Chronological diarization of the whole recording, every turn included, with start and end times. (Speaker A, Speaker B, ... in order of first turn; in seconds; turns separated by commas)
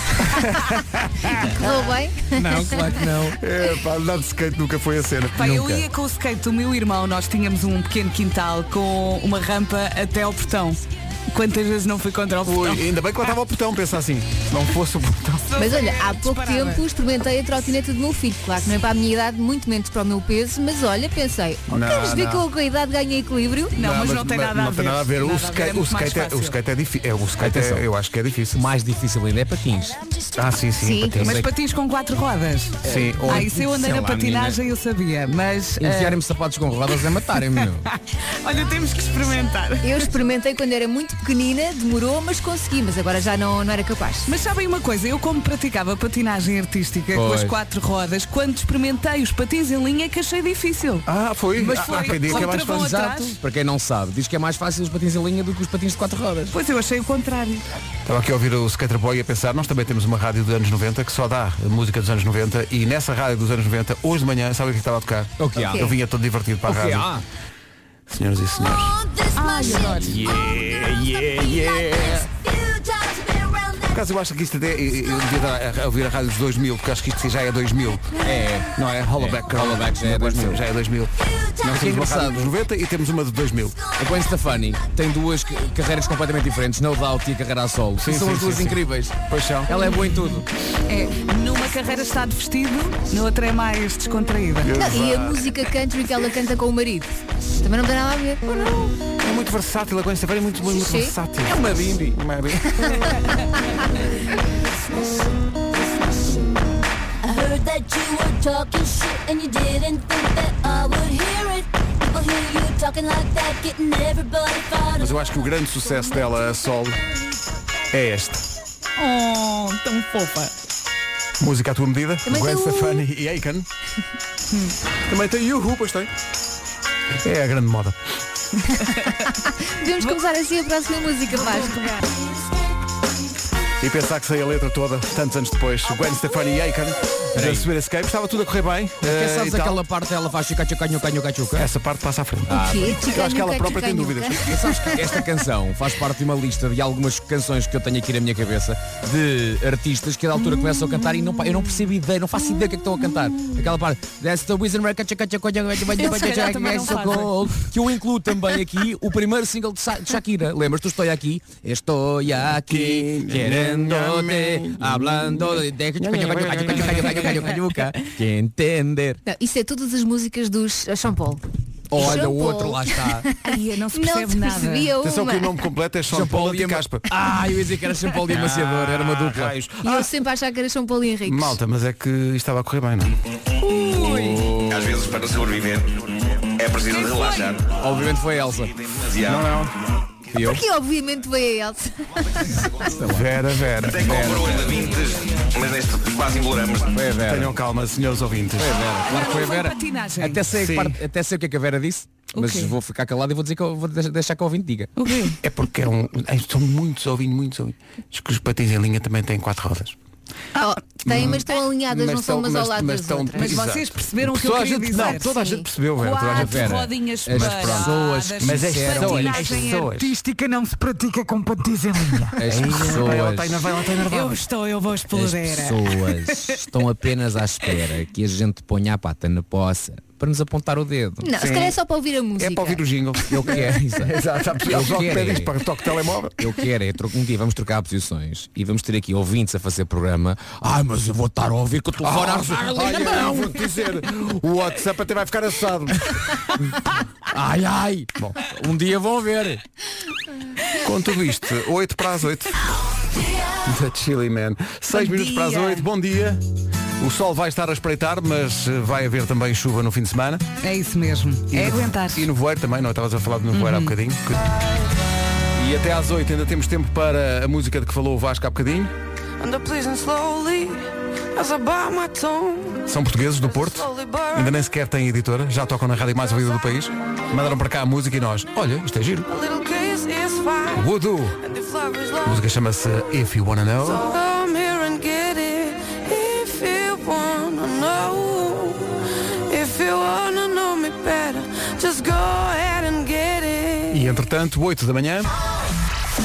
Speaker A: 0.3-1.6, Speaker B: 1.6-2.9, Speaker C: 2.3-3.4, Speaker A: 3.4-5.5, Speaker D: 5.4-12.9, Speaker C: 5.4-5.9, Speaker A: 12.4-15.4, Speaker D: 15.5-16.8, Speaker B: 15.6-23.7, Speaker A: 21.7-22.4, Speaker D: 23.8-26.6, Speaker A: 23.8-28.6, Speaker C: 27.4-27.9, Speaker C: 28.5-30.0, Speaker A: 30.4-31.5, Speaker B: 30.8-31.3, Speaker D: 31.2-36.2, Speaker A: 32.8-33.5, Speaker C: 32.8-34.6, Speaker C: 35.8-37.9, Speaker D: 37.5-40.0, Speaker B: 39.8-44.3, Speaker D: 44.3-51.1, Speaker C: 47.1-47.6, Speaker A: 51.1-53.0, Speaker C: 51.6-56.5, Speaker D: 51.7-53.4, Speaker D: 56.5-57.6, Speaker A: 58.1-67.1, Speaker C: 65.4-66.0, Speaker B: 65.6-65.9, Speaker C: 66.7-67.2, Speaker A: 68.1-69.0, Speaker E: 68.5-74.1, Speaker D: 69.3-70.2, Speaker C: 69.7-71.3, Speaker A: 70.3-72.3, Speaker A: 73.9-78.2, Speaker C: 78.2-80.7, Speaker A: 78.8-83.8, Speaker E: 81.2-81.8, Speaker C: 81.7-82.5, Speaker C: 84.0-89.1, Speaker E: 84.1-84.9, Speaker A: 88.0-89.7, Speaker C: 89.7-90.5, Speaker D: 90.9-94.7, Speaker A: 94.6-95.5, Speaker B: 94.8-98.8, Speaker A: 99.2-103.0, Speaker B: 100.6-101.1, Speaker C: 101.5-102.2, Speaker B: 102.8-103.3, Speaker E: 104.5-106.6, Speaker E: 107.2-116.9, Speaker A: 115.0-117.0, Speaker A: 117.9-118.5, Speaker D: 119.0-120.5, Speaker A: 121.4-123.7, Speaker B: 122.3-123.0, Speaker A: 125.1-126.1, Speaker A: 127.2-128.0, Speaker B: 128.8-131.9, Speaker D: 131.4-131.8, Speaker A: 133.8-139.8, Speaker C: 137.3-137.7, Speaker C: 139.0-141.7, Speaker A: 141.6-144.5, Speaker C: 142.5-143.0, Speaker B: 142.5-145.2, Speaker C: 144.4-169.2, Speaker D: 156.0-157.6, Speaker A: 162.7-167.6, Speaker B: 169.3-171.4, Speaker C: 171.9-173.3, Speaker B: 171.9-175.5, Speaker D: 173.4-174.9, Speaker A: 175.0-177.1, Speaker C: 176.1-179.6, Speaker A: 178.3-180.1, Speaker B: 179.8-181.6, Speaker A: 181.3-183.2, Speaker C: 183.7-184.9, Speaker D: 183.8-184.5, Speaker F: 184.7-186.0, Speaker F: 186.6-187.7, Speaker D: 186.8-187.6, Speaker C: 187.7-188.7, Speaker F: 189.1-189.4, Speaker A: 189.2-189.7, Speaker C: 190.3-190.6, Speaker B: 190.4-192.7, Speaker C: 192.8-194.7, Speaker A: 193.1-194.2, Speaker F: 193.9-196.9, Speaker C: 196.9-197.6, Speaker A: 197.2-198.8, Speaker C: 198.6-204.9, Speaker D: 199.1-200.4, Speaker A: 200.5-201.0, Speaker D: 202.4-202.7, Speaker D: 205.0-205.4, Speaker A: 205.4-210.0, Speaker B: 210.6-213.7, Speaker A: 211.0-220.2, Speaker D: 213.4-215.3, Speaker B: 215.0-215.7, Speaker D: 216.0-222.3, Speaker C: 216.3-219.8, Speaker C: 222.3-223.7, Speaker A: 222.4-224.4, Speaker D: 224.1-226.6, Speaker C: 225.1-231.3, Speaker B: 231.2-232.8, Speaker A: 231.4-231.8, Speaker A: 232.4-236.4, Speaker C: 233.3-235.6, Speaker C: 236.4-243.7, Speaker A: 242.0-246.5, Speaker C: 247.3-249.6, Speaker A: 250.8-252.5, Speaker A: 253.7-256.4, Speaker D: 254.9-255.9, Speaker A: 257.0-260.4, Speaker D: 260.6-262.3, Speaker A: 261.5-264.5, Speaker D: 263.5-263.9, Speaker A: 265.6-268.9, Speaker G: 269.4-274.5, Speaker A: 272.9-279.3, Speaker G: 279.3-280.9, Speaker A: 280.8-281.4, Speaker G: 281.4-282.4, Speaker A: 282.2-284.1, Speaker G: 283.8-289.0, Speaker G: 289.5-294.0, Speaker A: 293.9-295.3